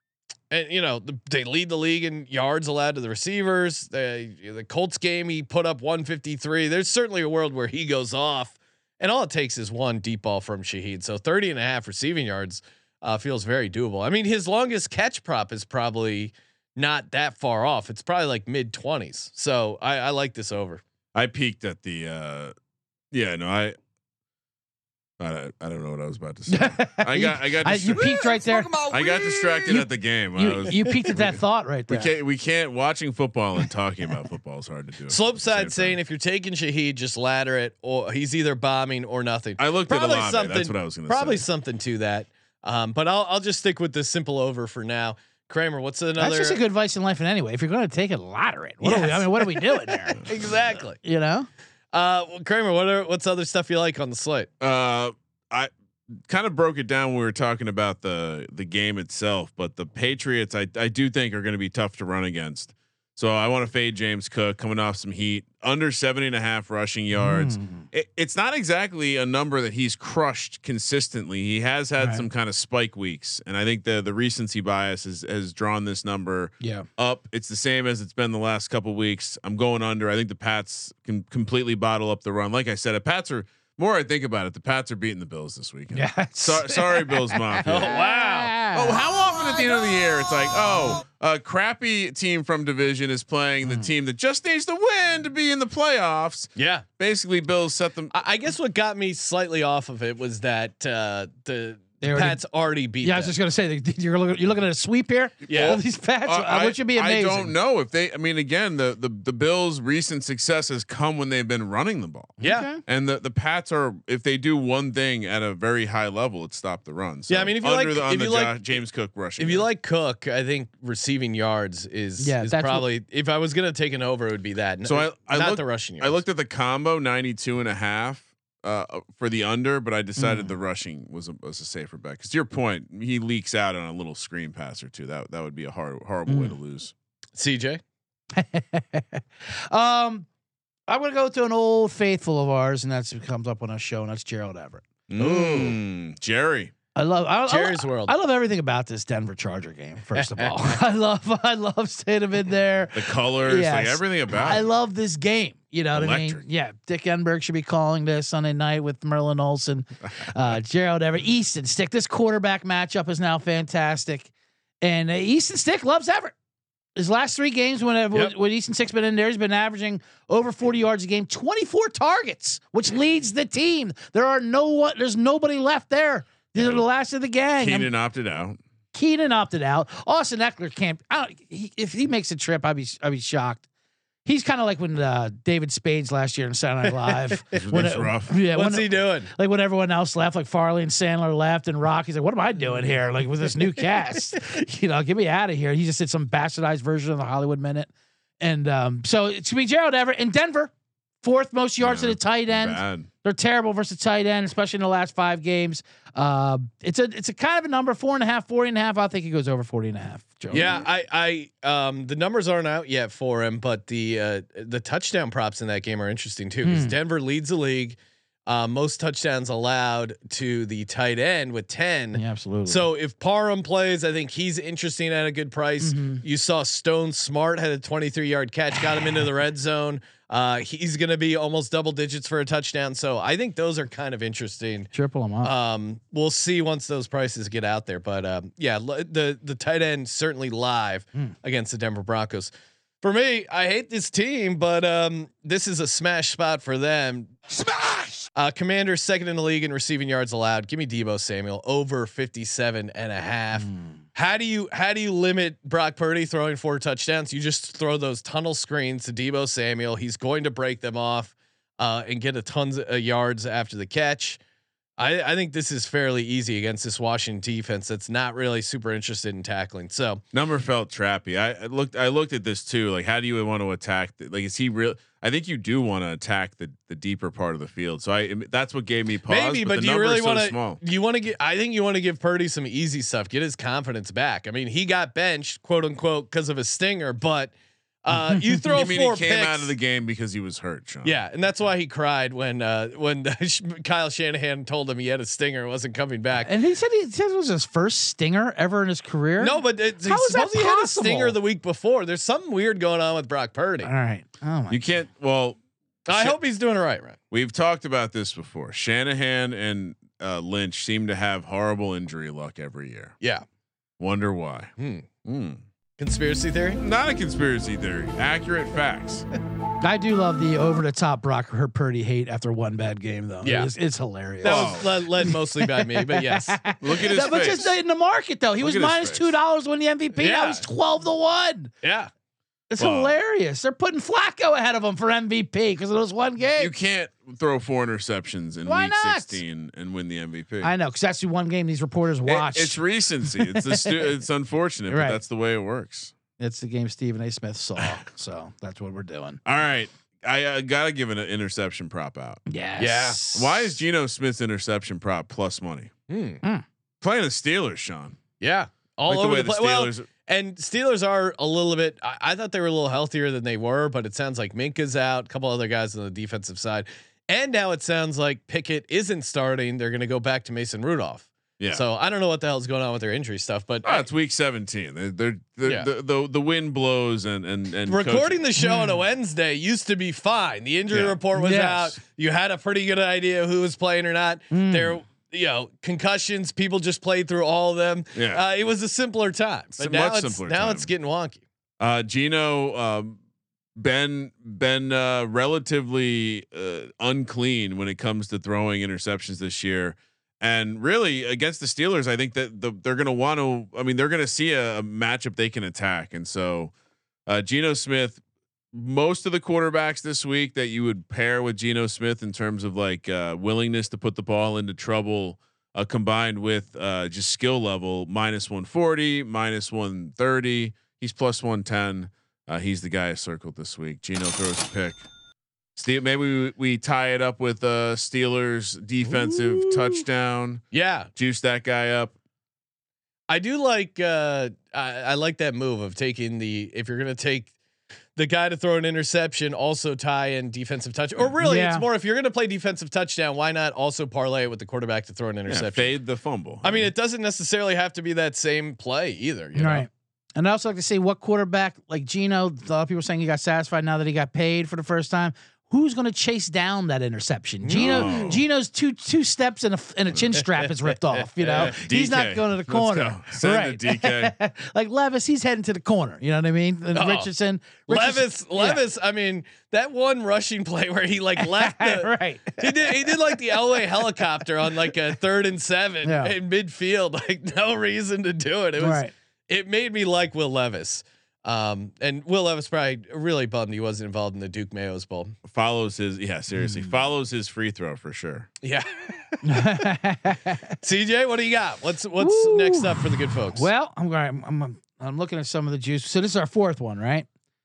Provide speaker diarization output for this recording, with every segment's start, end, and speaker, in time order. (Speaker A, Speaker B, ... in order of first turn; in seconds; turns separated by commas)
Speaker A: 0.5-20.8, Speaker B: 21.1-22.5, Speaker B: 23.1-23.8, Speaker B: 25.2-36.0, Speaker C: 26.5-28.9, Speaker C: 29.6-32.1, Speaker A: 35.1-46.6, Speaker B: 39.6-41.4, Speaker C: 46.2-50.2, Speaker A: 48.8-51.0, Speaker C: 51.0-51.5, Speaker A: 51.9-54.5, Speaker B: 54.6-55.7, Speaker B: 56.3-88.0, Speaker C: 67.2-67.8, Speaker C: 72.0-72.3, Speaker C: 76.6-76.9, Speaker C: 85.9-89.0, Speaker A: 87.7-88.5, Speaker B: 88.7-98.1, Speaker A: 96.6-96.9, Speaker A: 98.1-103.3, Speaker C: 102.0-102.4, Speaker C: 103.0-107.5, Speaker B: 105.5-119.7, Speaker A: 105.5-105.8, Speaker C: 112.4-112.8, Speaker A: 112.4-112.7, Speaker A: 117.3-118.6, Speaker A: 119.4-126.2, Speaker C: 122.2-122.9, Speaker B: 124.8-136.9, Speaker C: 130.2-130.5, Speaker C: 136.3-136.6, Speaker A: 137.4-137.8, Speaker C: 138.3-140.3, Speaker C: 140.9-144.8, Speaker B: 145.1-146.7, Speaker A: 145.2-145.8, Speaker C: 146.9-164.3, Speaker A: 147.5-148.1, Speaker A: 150.1-150.8, Speaker B: 152.9-154.7, Speaker B: 155.9-156.4, Speaker C: 164.8-166.3, Speaker C: 166.9-177.9, Speaker B: 177.6-178.6, Speaker C: 178.9-183.6, Speaker C: 184.3-197.9, Speaker B: 187.6-188.3, Speaker A: 188.5-189.3, Speaker C: 198.4-200.7, Speaker C: 201.2-210.8, Speaker B: 201.8-203.1, Speaker A: 210.5-234.9, Speaker B: 210.5-210.8, Speaker C: 216.6-216.9, Speaker C: 222.1-222.9, Speaker C: 225.8-226.2, Speaker C: 234.9-235.5, Speaker A: 235.4-247.4, Speaker A: 248.3-264.4, Speaker A: 265.0-270.2, Speaker B: 270.3-280.8, Speaker A: 279.3-287.5, Speaker A: 288.1-289.7, Speaker C: 288.2-288.6, Speaker B: 288.7-291.2, Speaker A: 291.0-296.5, Speaker C: 296.4-301.4, Speaker A: 299.4-303.9, Speaker C: 303.8-304.9, Speaker B: 304.7-306.4, Speaker A: 306.1-307.2, Speaker B: 307.3-313.1, Speaker B: 314.0-314.7, Speaker A: 314.8-315.1, Speaker B: 315.2-315.6, Speaker A: 316.0-316.8, Speaker B: 316.8-319.2, Speaker C: 319.8-331.7, Speaker A: 323.4-323.7, Speaker A: 324.4-326.6, Speaker B: 324.4-324.9, Speaker B: 326.8-327.8, Speaker B: 328.6-329.4, Speaker A: 330.2-330.6, Speaker A: 331.8-332.1, Speaker C: 332.7-336.7, Speaker B: 332.8-333.1, Speaker B: 336.6-340.7, Speaker C: 338.6-339.4, Speaker C: 340.6-344.1, Speaker B: 342.3-346.1, Speaker C: 344.9-345.2, Speaker C: 346.4-349.4, Speaker B: 349.4-352.4, Speaker C: 352.5-353.7, Speaker A: 352.8-353.2, Speaker B: 353.3-355.9, Speaker A: 356.1-356.4, Speaker B: 357.0-358.2, Speaker A: 358.4-374.1, Speaker B: 359.1-360.1, Speaker B: 371.6-371.8, Speaker B: 373.9-378.4, Speaker A: 377.9-391.4, Speaker C: 378.6-379.0, Speaker B: 380.9-381.2, Speaker C: 381.4-382.0, Speaker C: 384.5-385.0, Speaker B: 388.1-388.4, Speaker B: 389.8-390.9, Speaker B: 391.8-393.2, Speaker B: 393.8-406.7, Speaker B: 407.3-408.2, Speaker B: 408.7-425.1, Speaker B: 425.8-430.6, Speaker A: 429.1-430.0, Speaker A: 430.7-431.1, Speaker B: 431.1-432.1, Speaker A: 433.3-437.5, Speaker A: 438.1-445.9, Speaker C: 441.4-441.9, Speaker B: 445.5-446.9, Speaker A: 446.6-449.9, Speaker C: 449.6-468.8, Speaker A: 457.6-458.4, Speaker B: 457.8-458.4, Speaker A: 460.9-461.8, Speaker B: 461.6-464.3, Speaker A: 466.9-467.3, Speaker A: 467.9-485.4, Speaker C: 471.4-473.1, Speaker C: 476.0-476.3, Speaker C: 478.8-479.1, Speaker B: 485.4-488.5, Speaker C: 486.6-486.9, Speaker A: 488.6-489.7, Speaker C: 489.4-490.8, Speaker A: 490.8-493.7, Speaker C: 492.2-497.3